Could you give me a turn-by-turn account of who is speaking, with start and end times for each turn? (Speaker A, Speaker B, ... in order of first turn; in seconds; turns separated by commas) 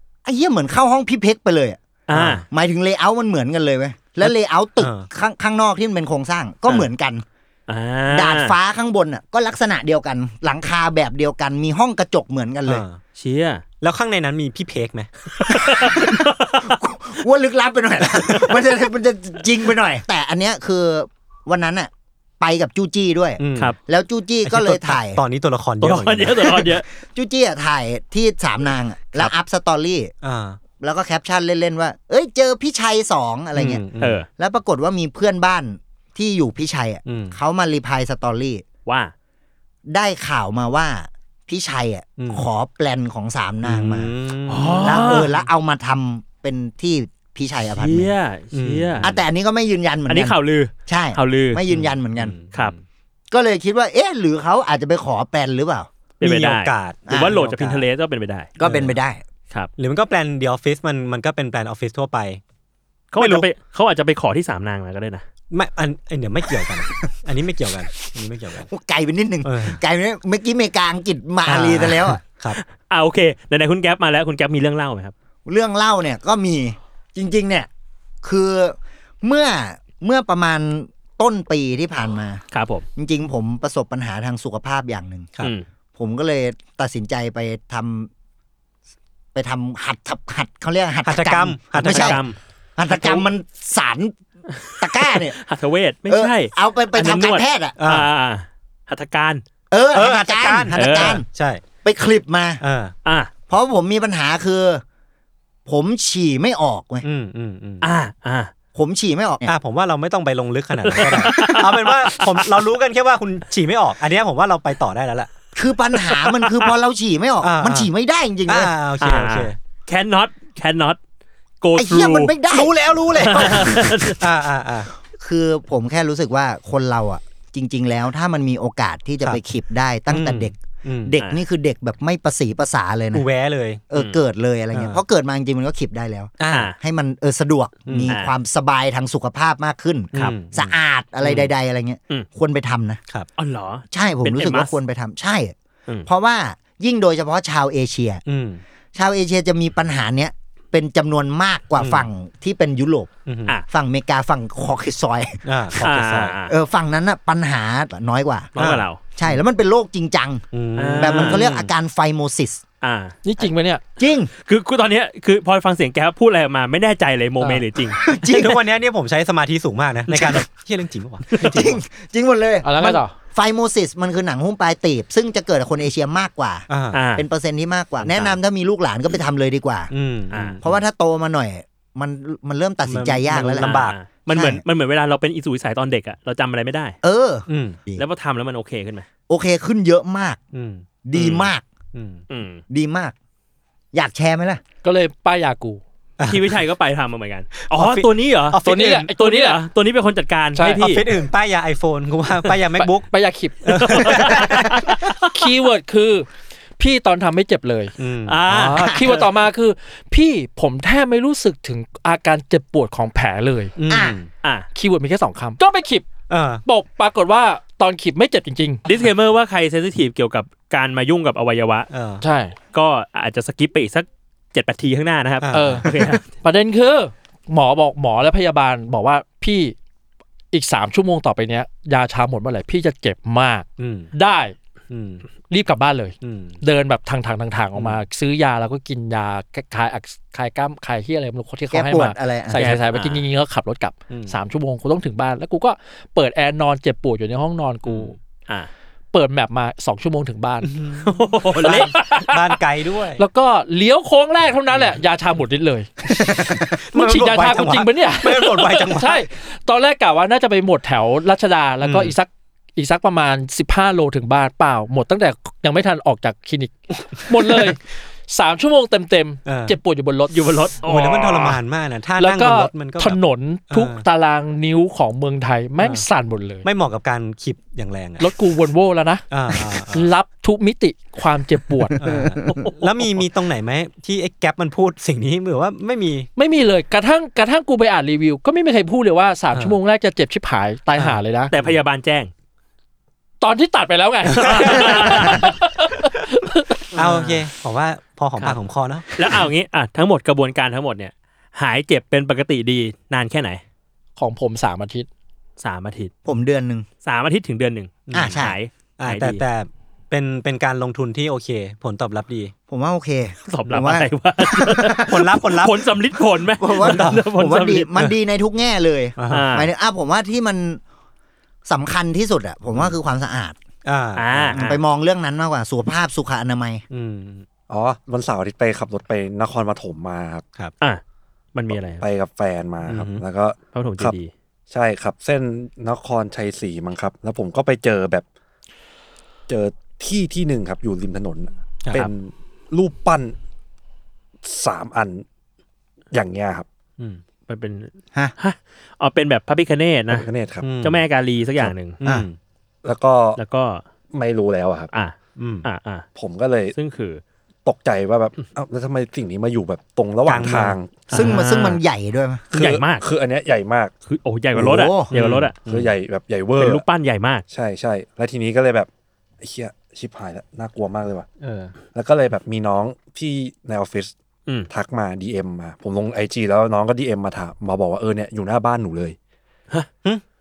Speaker A: 0.2-1.8, Speaker B: 2.1-2.4, Speaker C: 2.1-2.4, Speaker A: 2.5-7.2, Speaker C: 4.8-5.1, Speaker B: 7.7-8.6, Speaker A: 8.1-12.8, Speaker C: 12.7-13.0, Speaker B: 13.2-13.6, Speaker C: 13.8-15.1, Speaker B: 15.4-16.7, Speaker A: 15.5-25.2, Speaker C: 23.4-23.7, Speaker C: 24.4-26.6, Speaker B: 25.8-26.9, Speaker A: 27.1-30.1, Speaker C: 30.2-30.6, Speaker A: 30.8-33.8, Speaker C: 33.5-34.2, Speaker B: 34.0-34.3, Speaker A: 34.4-38.6, Speaker C: 37.0-37.4, Speaker B: 38.9-39.1, Speaker A: 39.9-44.1, Speaker C: 42.2-42.5, Speaker C: 43.6-45.3, Speaker B: 44.5-45.3, Speaker A: 44.8-48.1, Speaker B: 47.7-49.1, Speaker C: 48.5-49.2, Speaker A: 49.0-50.4, Speaker B: 50.1-51.6, Speaker A: 50.9-52.3, Speaker C: 51.7-52.8, Speaker A: 53.3-55.9, Speaker B: 56.2-58.5, Speaker C: 56.2-57.8, Speaker A: 57.1-57.4, Speaker A: 58.6-59.2, Speaker C: 58.6-59.0, Speaker C: 59.8-62.4, Speaker B: 63.1-65.2, Speaker C: 63.2-63.5, Speaker C: 65.5-68.7, Speaker A: 68.7-72.2, Speaker C: 69.4-69.8, Speaker C: 71.5-72.6, Speaker B: 72.8-75.1, Speaker A: 75.5-77.7, Speaker A: 78.2-82.4, Speaker B: 82.5-82.8, Speaker A: 83.0-85.3, Speaker A: 86.0-88.1, Speaker A: 89.3-92.2, Speaker C: 91.0-92.2, Speaker B: 91.8-92.4, Speaker A: 92.8-94.1, Speaker B: 94.6-99.4, Speaker A: 94.8-95.4, Speaker A: 96.1-97.7, Speaker C: 97.8-98.1, Speaker A: 99.7-101.2, Speaker C: 99.9-101.6, Speaker B: 100.7-101.2, Speaker A: 101.8-102.6, Speaker C: 102.6-102.9, Speaker B: 103.0-103.3, Speaker A: 103.5-104.8, Speaker A: 105.7-107.0, Speaker C: 107.0-107.8, Speaker B: 107.8-108.5, Speaker A: 108.7-109.5, Speaker C: 109.4-115.3, Speaker B: 110.8-112.6, Speaker A: 111.0-111.5, Speaker A: 115.5-118.7, Speaker C: 117.4-117.9, Speaker C: 118.5-119.5, Speaker B: 119.0-121.0, Speaker B: 121.6-122.3, Speaker A: 121.8-123.5, Speaker C: 122.5-124.9, Speaker B: 123.2-124.2, Speaker A: 125.2-133.2, Speaker C: 130.1-131.2, Speaker C: 133.1-133.8, Speaker A: 133.9-143.0, Speaker B: 133.9-134.2, Speaker C: 134.7-135.0, Speaker C: 136.4-136.7, Speaker C: 137.8-138.1, Speaker C: 140.1-141.5, Speaker B: 143.4-144.7, Speaker A: 143.9-145.5, Speaker A: 146.1-148.2, Speaker C: 148.2-148.6, Speaker A: 148.9-153.1, Speaker C: 151.8-152.1, Speaker C: 153.2-153.6, Speaker A: 153.7-155.4, Speaker C: 155.4-156.3, Speaker B: 155.8-156.5, Speaker A: 156.5-158.5, Speaker B: 158.6-159.0, Speaker C: 158.6-159.4, Speaker A: 159.2-160.4, Speaker C: 160.5-161.7, Speaker B: 160.8-161.4, Speaker A: 161.0-162.6, Speaker B: 162.8-163.2, Speaker D: 163.2-163.8, Speaker A: 164.0-164.3, Speaker B: 164.4-168.0, Speaker A: 168.0-168.6, Speaker C: 168.3-171.8, Speaker B: 170.1-170.4, Speaker A: 171.4-179.9, Speaker D: 172.6-173.1, Speaker C: 176.7-177.0, Speaker B: 176.9-177.2, Speaker C: 178.0-178.3, Speaker C: 179.9-180.8, Speaker B: 180.3-180.6, Speaker A: 180.6-183.8, Speaker C: 182.8-184.0, Speaker B: 183.6-186.9, Speaker A: 184.3-184.6, Speaker A: 187.0-188.0, Speaker C: 187.5-187.8, Speaker B: 188.0-189.1, Speaker A: 189.3-190.4, Speaker C: 190.5-190.8, Speaker A: 191.0-191.6, Speaker B: 191.1-191.5, Speaker C: 191.9-192.2, Speaker B: 192.3-192.6, Speaker A: 192.7-193.1, Speaker A: 193.9-194.6, Speaker D: 194.8-195.8, Speaker C: 196.2-196.6, Speaker B: 196.3-198.6, Speaker C: 197.6-199.1, Speaker D: 198.6-199.6, Speaker B: 199.2-201.1, Speaker D: 200.5-200.8, Speaker C: 200.7-203.1, Speaker D: 203.0-206.3, Speaker C: 203.6-204.7, Speaker B: 203.9-205.1, Speaker D: 206.8-207.9, Speaker C: 208.0-208.4, Speaker B: 208.2-209.2, Speaker D: 208.5-213.7, Speaker C: 213.8-214.3, Speaker A: 213.9-214.2, Speaker D: 214.7-216.1, Speaker C: 216.3-216.6, Speaker D: 216.6-218.8, Speaker B: 218.8-221.9, Speaker C: 221.9-222.2, Speaker D: 222.2-222.5, Speaker B: 222.7-226.2, Speaker C: 225.4-226.2, Speaker D: 225.5-229.7, Speaker D: 230.5-234.5, Speaker C: 233.8-234.1, Speaker C: 234.9-235.2, Speaker D: 235.5-248.2, Speaker C: 236.2-236.6, Speaker C: 237.7-238.0, Speaker A: 241.7-242.6, Speaker B: 242.6-243.2, Speaker C: 244.1-244.3, Speaker C: 247.9-248.1, Speaker D: 249.1-250.7, Speaker C: 250.6-253.2, Speaker B: 251.0-252.2, Speaker D: 251.7-252.4, Speaker D: 253.2-256.3, Speaker C: 256.2-259.2, Speaker D: 256.9-270.4, Speaker C: 261.8-262.1, Speaker C: 267.4-267.7, Speaker C: 269.4-269.8, Speaker B: 270.3-271.6, Speaker C: 270.8-274.0, Speaker D: 272.2-276.7, Speaker C: 275.8-276.0, Speaker C: 276.6-278.3, Speaker D: 278.2-282.0, Speaker C: 279.3-280.1, Speaker C: 281.9-286.3, Speaker B: 282.5-282.8, Speaker D: 286.4-291.5, Speaker C: 291.0-291.8, Speaker B: 291.5-292.3, Speaker D: 293.4-296.9, Speaker C: 294.4-295.3, Speaker B: 294.4-295.5, Speaker C: 296.9-299.4, Speaker B: 297.0-297.3, Speaker B: 299.1-303.6, Speaker D: 304.2-305.1, Speaker B: 305.6-306.1, Speaker A: 306.2-306.9, Speaker B: 307.0-309.4, Speaker C: 308.1-308.4, Speaker A: 308.1-308.6, Speaker C: 309.0-312.5, Speaker A: 312.7-315.1, Speaker B: 313.5-317.9, Speaker C: 315.1-315.8, Speaker A: 316.6-320.8, Speaker C: 316.8-317.2, Speaker C: 319.2-319.6, Speaker B: 319.3-319.7, Speaker A: 321.6-323.6, Speaker C: 323.8-324.7, Speaker B: 324.1-324.8, Speaker A: 324.5-326.8, Speaker C: 326.9-327.4, Speaker E: 327.7-330.4, Speaker B: 331.5-332.0, Speaker E: 331.7-334.1, Speaker C: 332.8-333.2, Speaker B: 333.7-334.3, Speaker E: 334.7-338.2, Speaker E: 339.5-343.4, Speaker C: 341.8-342.1, Speaker E: 344.4-345.2, Speaker E: 346.1-346.6, Speaker B: 347.5-350.3, Speaker E: 350.1-350.7, Speaker C: 350.6-351.0, Speaker B: 350.8-352.0, Speaker C: 352.0-352.4, Speaker E: 352.8-353.4, Speaker B: 353.4-353.8, Speaker E: 354.1-354.9, Speaker B: 354.9-356.1, Speaker C: 355.4-355.7, Speaker E: 356.1-356.8, Speaker B: 356.7-357.2, Speaker E: 357.6-361.3, Speaker C: 360.2-361.4, Speaker B: 361.1-361.8, Speaker A: 361.1-362.4, Speaker E: 362.5-363.9, Speaker B: 362.5-363.1, Speaker B: 364.1-365.6, Speaker A: 364.5-365.1, Speaker C: 365.1-365.9, Speaker E: 365.6-366.8, Speaker B: 366.6-367.4, Speaker E: 367.5-368.9, Speaker E: 369.4-371.3, Speaker C: 371.4-371.7, Speaker E: 371.9-374.1, Speaker E: 374.7-379.1